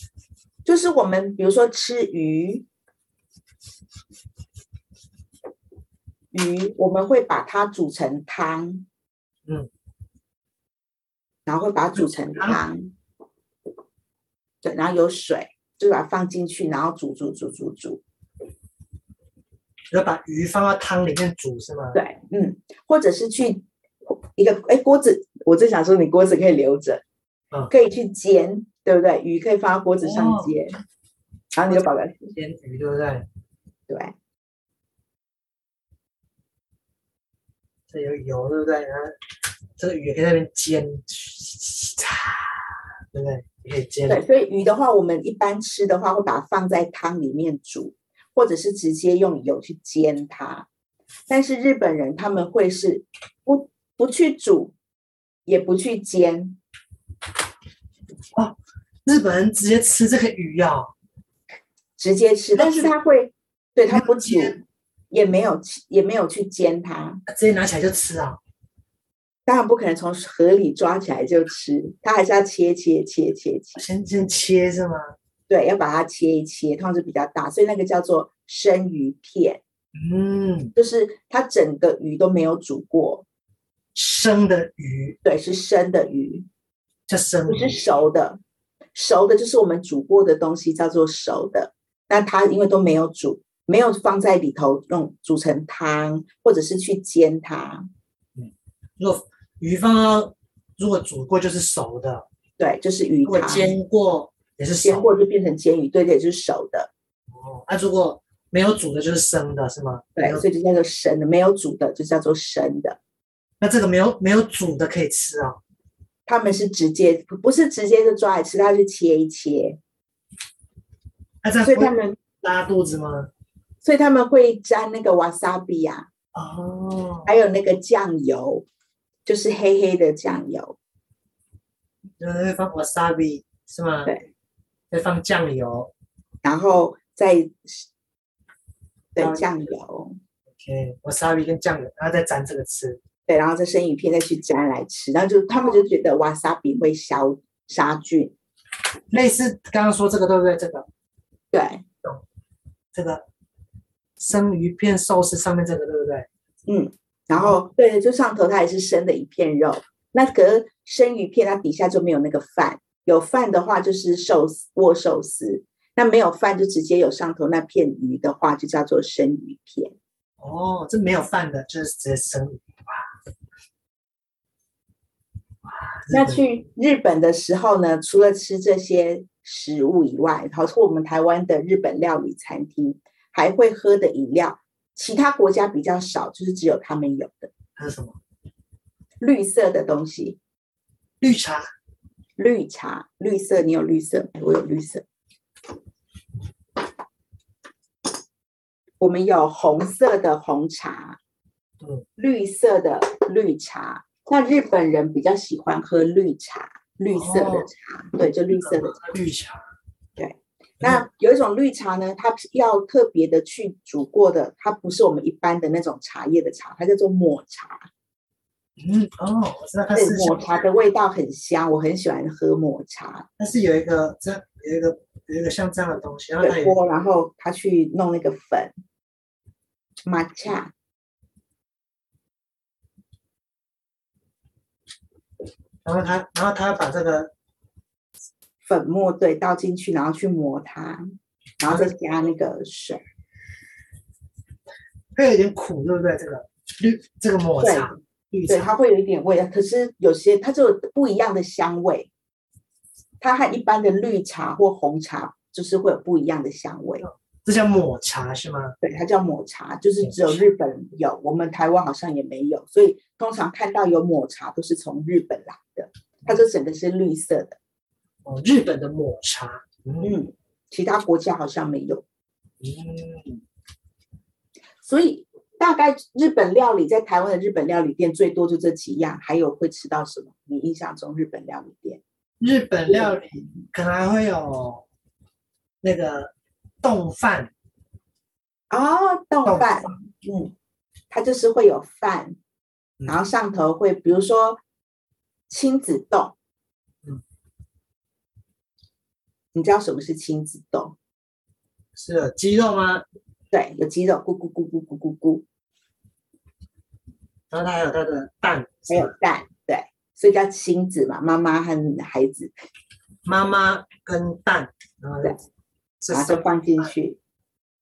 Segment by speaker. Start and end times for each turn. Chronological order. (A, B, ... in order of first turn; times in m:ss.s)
0:00.6-0:02.6 A
0:06.3-0:08.8 A
0:11.5-0:12.9 A
0:12.0-0:12.6 B
0:14.6-0:18.0 A
0:19.9-0:22.0 B
0:21.9-0:27.0 A
0:27.7-0:30.8 A
0:30.0-0:30.5 B
0:31.5-0:32.3 A
0:31.7-0:33.3 B
0:33.9-0:34.1 A
0:37.9-0:39.2 B
0:39.8-0:44.2 B
0:44.1-0:50.7 A
0:51.3-0:54.8 A
0:55.5-0:56.6 A
0:58.3-1:00.9 B
1:02.0-1:07.2 A
1:02.6-1:02.9 B
1:03.9-1:04.6 B
1:07.3-1:08.4 B
1:09.5-1:13.8 A
1:13.8-1:15.1 B
1:15.5-1:19.6 A
1:20.0-1:20.7 B
1:20.8-1:23.2 A
1:24.0-1:25.2 B
1:25.2-1:26.5 A
1:27.1-1:27.8 B
1:27.5-1:28.4 A
1:28.9-1:37.9 A
1:38.4-1:42.3 B
1:42.6-1:43.7 A
1:43.3-1:45.1 B
1:44.8-1:46.9 A
1:47.3-1:50.4 B
1:50.2-1:53.0 A
1:53.6-1:55.6 B
1:56.3-1:59.8 A
2:01.4-2:03.3 B
2:01.6-2:02.2 A
2:03.8-2:06.1 A
2:06.4-2:07.3 B
2:07.3-2:08.6 A
2:09.3-2:10.8 A
2:12.2-2:14.1 B
2:14.9-2:15.9 B
2:16.4-2:17.9 A
2:19.2-2:20.2 A
2:19.2-2:19.4 B
2:20.6-2:23.0 B
2:23.3-2:28.3 A
2:29.1-2:30.9 B
2:31.5-2:31.8 A
2:32.9-2:33.2 B
2:34.2-2:36.3 B
2:36.7-2:50.0 A
2:50.4-2:53.1 B
2:55.6-2:56.4 B
2:56.1-3:07.5 A
3:07.8-3:08.2 B
3:09.2-3:10.4 A
3:11.2-3:11.7 B
3:12.4-3:15.0 A
3:19.0-3:21.2 A
3:22.2-3:29.0 A
3:27.1-3:27.7 B
3:28.5-3:29.6 B
3:30.2-3:37.9 A
3:38.8-3:40.6 B
3:40.0-3:43.3 A
3:43.4-3:46.8 B
3:46.4-3:48.7 A
3:50.0-3:50.7 A
3:55.8-3:57.3 B
3:58.6-4:03.0 A
4:05.2-4:08.7 B
4:07.6-4:07.9 A
4:08.5-4:12.1 A
4:13.2-4:17.1 A
4:17.0-4:18.8 B
4:18.8-4:27.6 A
4:20.0-4:20.4 B
4:28.2-4:30.1 B
4:30.0-4:32.0 A
4:32.6-4:33.4 B
4:34.8-4:42.0 A
4:42.4-4:44.8 B
4:45.8-4:47.5 B
4:48.7-4:50.5 A
4:49.4-4:49.9 B
4:51.1-4:52.4 A
4:53.1-4:54.6 A
4:55.5-4:56.4 A
4:59.5-5:01.0 A
5:02.0-5:03.0 B
5:03.5-5:05.4 A
5:07.5-5:09.1 B
5:08.9-5:12.5 A
5:13.2-5:15.4 B
5:16.0-5:16.9 B
5:16.1-5:17.2 A